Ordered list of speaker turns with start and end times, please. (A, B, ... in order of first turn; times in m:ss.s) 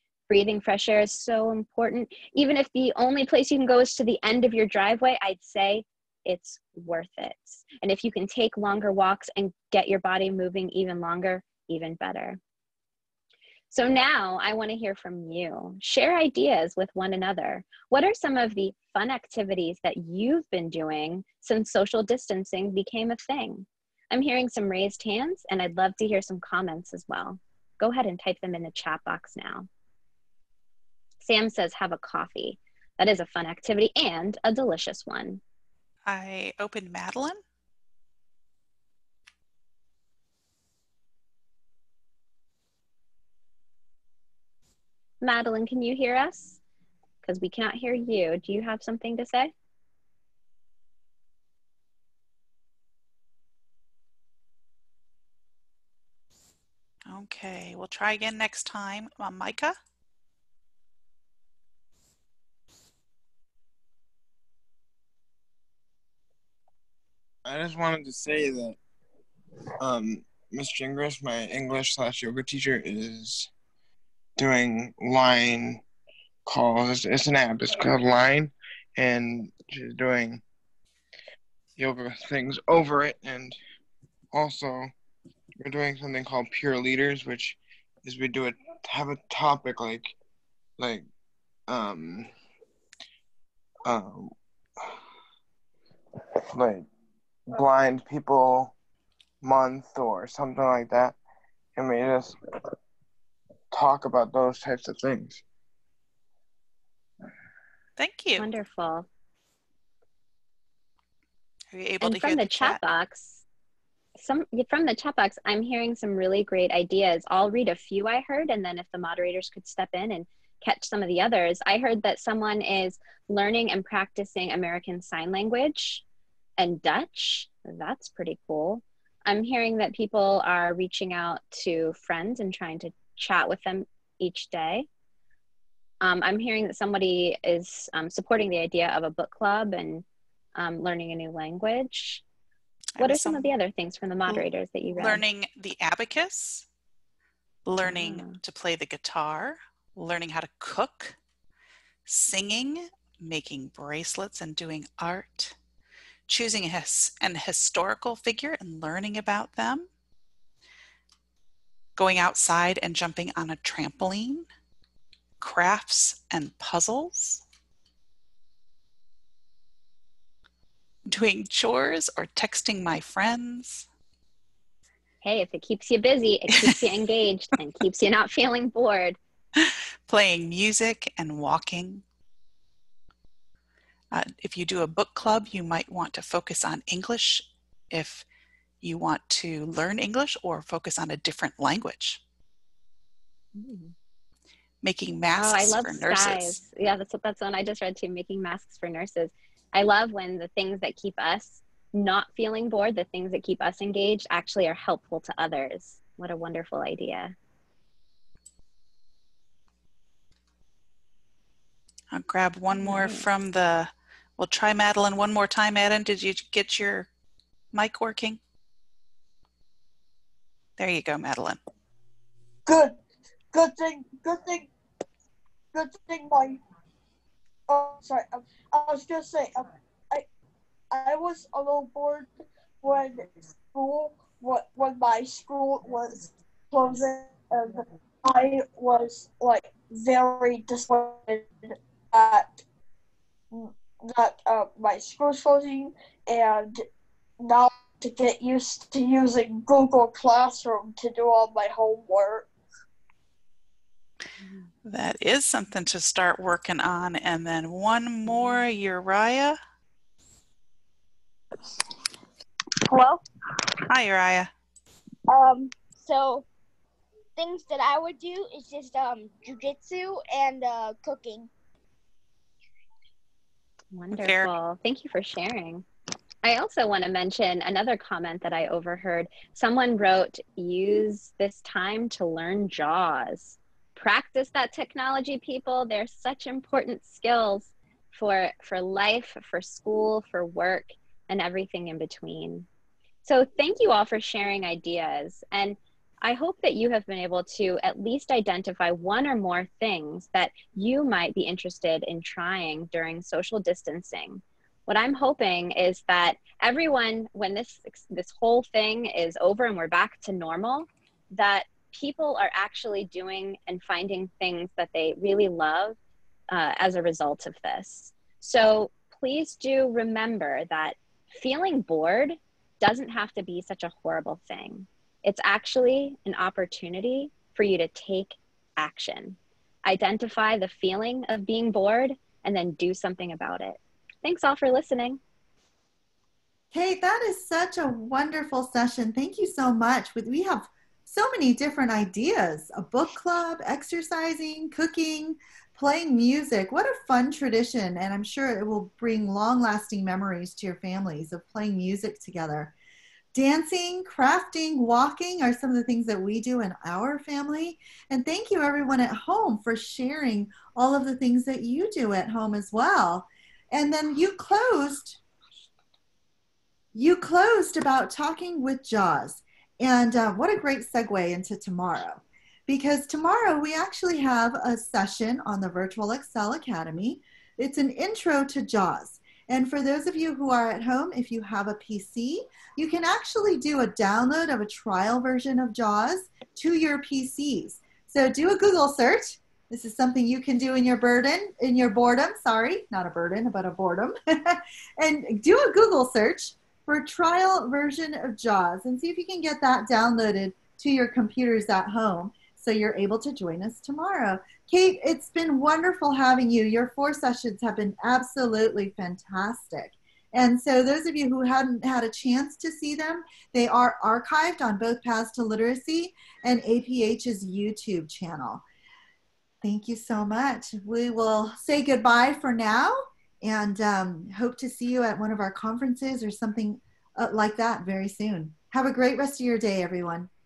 0:00.3-0:12.4 A
0:13.7-0:29.7 A
0:31.2-0:35.4 A
0:36.1-0:37.4 B
0:45.2-0:46.6 A
0:47.2-0:49.5 A
0:57.1-0:59.8 B
1:07.5-1:08.8 C
1:09.8-1:13.5 C
1:14.4-1:15.8 C
1:16.5-1:20.4 C
1:21.8-1:23.6 C
1:24.3-1:24.9 C
1:25.6-1:30.1 C
1:30.8-1:31.0 C
1:31.7-1:32.3 C
1:33.8-1:34.3 C
1:36.5-1:36.9 C
1:37.5-1:38.7 C
1:39.4-1:41.2 C
1:41.8-1:42.4 C
1:43.7-1:45.4 C
1:48.0-1:48.5 B
1:48.4-1:49.1 A
1:51.7-1:52.8 B
1:52.0-1:53.4 A
1:54.2-2:06.0 A
2:06.6-2:14.9 A
2:16.0-2:22.2 A
2:23.0-2:23.5 B
2:23.0-2:25.2 A
2:24.3-2:26.7 B
2:27.7-2:31.2 B
2:27.8-2:28.4 A
2:32.1-2:35.5 B
2:36.3-2:39.9 B
2:42.0-2:44.5 B
2:45.4-2:47.4 B
2:51.1-2:53.9 B
2:55.2-2:59.2 A
2:59.6-3:02.0 B
3:04.1-3:08.2 B
3:08.8-3:12.2 B
3:13.6-3:13.9 A
3:14.8-3:16.6 B
3:15.3-3:27.4 A
3:32.1-3:37.1 B
3:32.7-3:33.3 A
3:37.7-3:38.4 B
3:40.8-3:41.6 B
3:42.7-3:43.0 D
3:43.5-3:44.7 D
3:45.7-3:46.6 D
3:47.7-3:50.3 D
3:50.9-3:52.3 D
3:52.8-4:01.5 D
4:02.1-4:02.6 D
4:03.5-4:06.8 D
4:07.4-4:12.5 D
4:14.8-4:19.6 B
4:22.9-4:23.2 D
4:23.9-4:24.5 B
4:25.3-4:26.5 D
4:27.4-4:31.5 D
4:33.9-4:35.9 A
4:34.1-4:34.5 B
4:36.4-4:52.7 A
4:53.2-5:16.0 A
5:16.5-5:35.2 A
5:36.7-5:52.7 E
5:53.3-6:05.2 E
6:06.9-6:58.6 E
6:59.6-7:10.3 E